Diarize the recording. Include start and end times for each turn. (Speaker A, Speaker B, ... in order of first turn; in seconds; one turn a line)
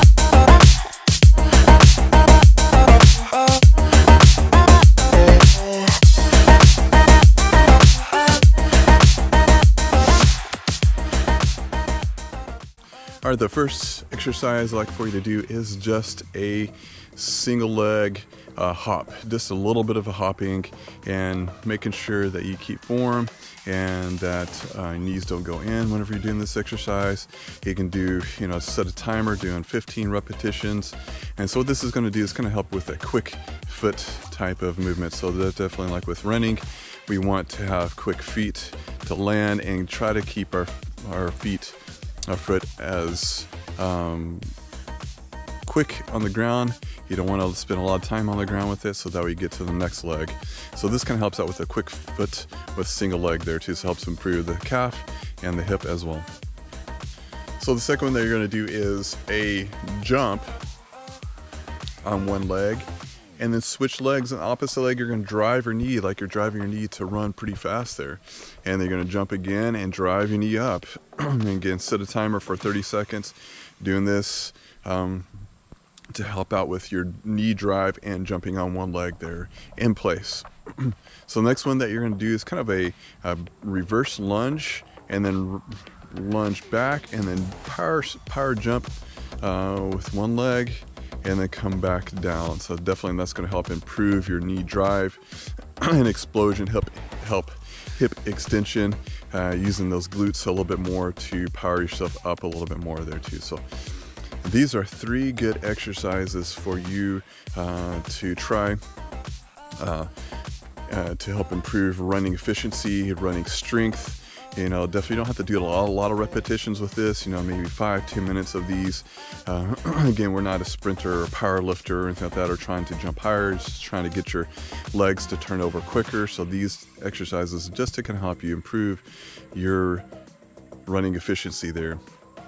Speaker A: 13.2-44.5
Speaker A: 45.6-56.3
Speaker A: 57.6-60.6
Speaker A: 62.0-75.3
Speaker A: 76.1-103.7
Speaker A: 104.4-108.8
Speaker A: 109.8-110.1
Speaker A: 110.9-130.1
Speaker A: 130.9-132.0